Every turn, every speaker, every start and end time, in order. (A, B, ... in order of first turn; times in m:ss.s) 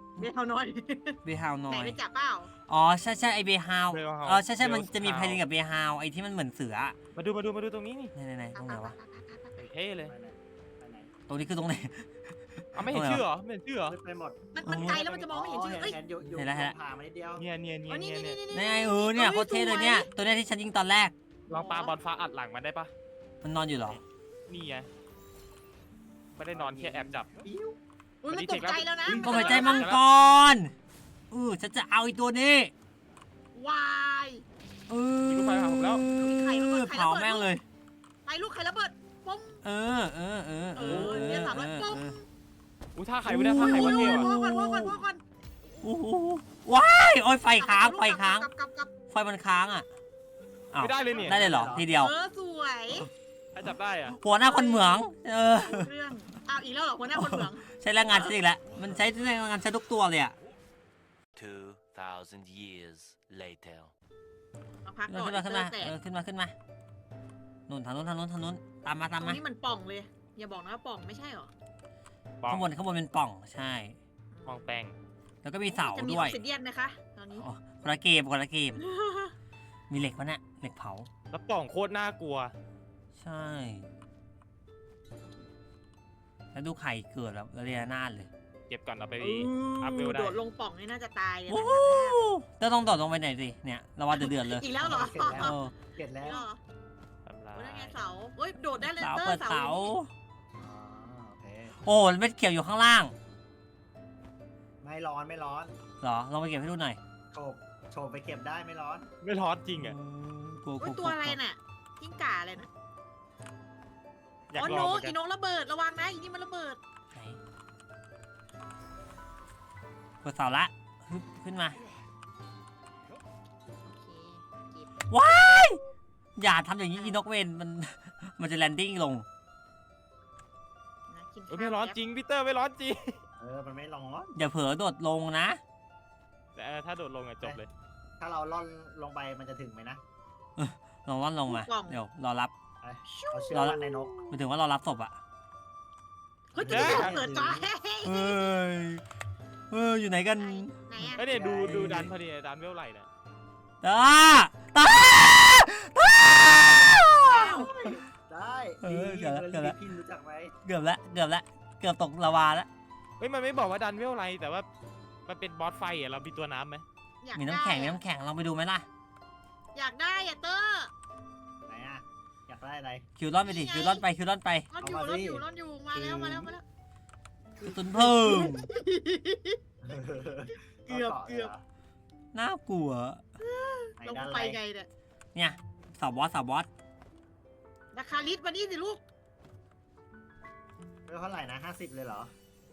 0:00.2-0:02.5 A
0:01.2-0:02.0 B
0:02.7-0:07.0 B
0:03.9-0:05.4 C
0:07.1-0:08.1 C
0:08.1-0:09.0 B
0:08.5-0:09.7 A
0:09.6-0:10.1 C
0:10.1-0:11.1 D
0:11.3-0:13.2 B
0:12.7-0:13.9 C
0:13.9-0:17.4 D
0:14.5-0:16.0 A
0:14.6-0:15.0 B
0:16.3-0:16.8 B
0:17.4-0:18.4 C
0:17.9-0:20.1 A
0:18.5-0:21.1 B
0:21.5-0:22.9 C
0:21.5-0:21.9 A
0:23.4-0:24.0 B
0:23.9-0:24.9 C
0:26.4-0:27.3 C
0:26.5-0:27.8 D
0:28.2-0:29.9 A
0:28.3-0:30.0 C
0:29.0-0:29.8 D
0:29.2-0:30.7 B
0:31.3-0:32.7 B
0:33.5-0:34.4 A
0:34.9-0:37.6 B
0:35.3-0:36.0 C
0:36.2-0:37.5 A
0:38.2-0:39.6 A
0:39.6-0:42.2 B
0:40.7-0:42.2 A
0:40.8-0:41.4 C
0:43.0-0:44.3 C
0:43.3-0:45.0 B
0:43.6-0:45.9 A
0:45.8-0:48.5 B
0:47.6-0:48.9 A
0:49.1-0:49.9 B
0:50.7-0:52.1 B
0:50.8-0:51.4 C
0:51.1-0:51.9 D
0:51.9-0:53.1 A
0:53.5-0:54.2 C
0:54.1-0:55.9 B
0:54.4-0:58.3 A
0:57.1-1:00.3 B
1:01.3-1:03.9 E
1:04.8-1:05.9 A
1:05.1-1:06.5 B
1:07.7-1:09.4 B
1:09.2-1:11.5 A
1:12.4-1:12.7 C
1:12.5-1:14.0 B
1:14.3-1:14.7 A
1:14.4-1:14.9 C
1:15.4-1:16.4 B
1:15.7-1:17.5 A
1:17.4-1:18.8 B
1:18.8-1:19.3 A
1:19.9-1:21.1 B
1:21.3-1:22.5 C
1:23.2-1:23.9 B
1:26.5-1:28.3 B
1:28.7-1:30.4 C
1:29.2-1:32.2 A
1:31.5-1:34.6 B
1:34.1-1:35.7 A
1:34.8-1:36.4 D
1:35.4-1:35.7 B
1:36.2-1:36.6 A
1:37.2-1:38.0 C
1:37.6-1:39.9 A
1:38.8-1:40.1 B
1:40.6-1:41.8 D
1:41.8-1:43.1 B
1:44.8-1:45.7 D
1:46.0-1:47.0 B
1:47.3-1:49.1 D
1:49.2-1:50.0 C
1:49.8-1:51.4 B
1:50.8-1:52.7 A
1:54.5-1:55.1 C
1:54.6-1:56.8 A
1:54.6-1:54.9 D
1:57.1-1:57.4 B
2:00.2-2:01.8 B
2:03.8-2:04.9 A
2:05.1-2:05.8 B
2:06.4-2:09.2 B
2:11.1-2:12.0 A
2:11.5-2:13.2 C
2:13.4-2:14.4 D
2:14.4-2:15.6 B
2:16.6-2:17.7 C
2:18.2-2:20.0 D
2:20.6-2:22.5 B
2:21.5-2:22.0 A
2:22.8-2:24.2 D
2:23.4-2:24.3 A
2:23.5-2:25.2 B
2:26.5-2:28.5 A
2:26.6-2:27.6 D
2:26.6-2:27.2 C
2:28.0-2:29.0 B
2:29.7-2:31.1 B
2:30.4-2:31.2 A
2:31.2-2:33.1 C
2:31.2-2:32.1 D
2:31.6-2:32.1 B
2:33.8-2:37.9 B
2:36.5-2:36.9 D
2:37.2-2:37.7 A
2:37.5-2:40.5 D
2:38.8-2:39.8 B
2:40.6-2:42.7 B
2:43.2-2:44.7 C
2:45.2-2:46.8 C
2:47.2-2:48.0 A
2:47.3-2:48.8 B
2:49.7-2:50.9 A
2:51.7-2:53.0 D
2:53.2-2:54.7 B
2:53.4-2:54.0 A
2:54.7-2:56.6 A
2:54.8-2:56.5 D
2:57.6-2:58.5 D
2:57.6-2:58.7 B
2:58.0-2:59.6 A
2:59.8-3:01.6 D
3:00.9-3:01.5 A
3:02.3-3:03.2 B
3:03.4-3:04.9 A
3:04.0-3:04.6 D
3:05.3-3:06.7 B
3:07.9-3:09.0 A
3:11.1-3:12.3 D